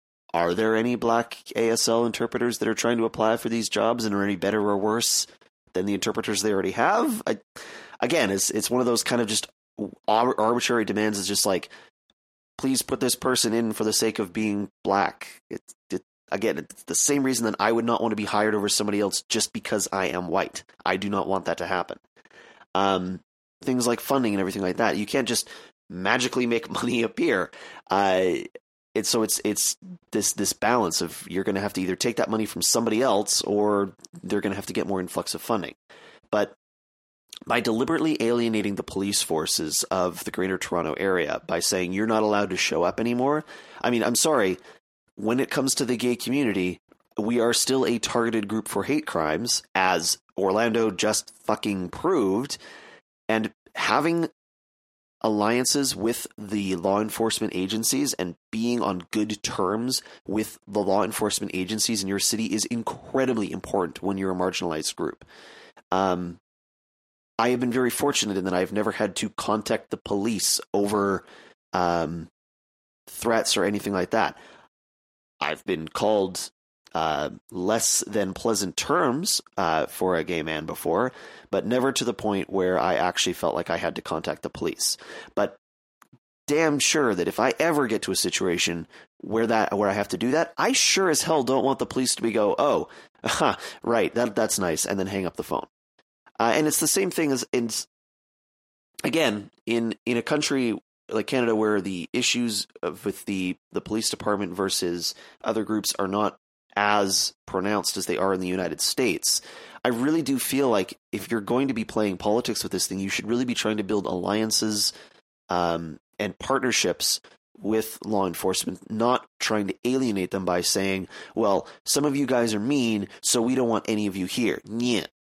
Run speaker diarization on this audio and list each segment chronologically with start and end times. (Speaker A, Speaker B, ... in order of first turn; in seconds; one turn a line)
Speaker A: 0.3-7.4
Speaker A: 8.0-11.7
Speaker A: 12.6-22.0
Speaker A: 22.7-35.7
Speaker A: 37.5-44.6
Speaker A: 45.2-52.6
Speaker A: 53.3-54.3
Speaker A: 55.2-65.2
Speaker A: 65.9-66.4
Speaker A: 67.4-72.3
Speaker A: 73.1-74.4
Speaker A: 75.4-85.6
Speaker A: 86.5-95.7
Speaker A: 96.4-97.8
Speaker A: 99.0-114.9
Speaker A: 115.5-125.1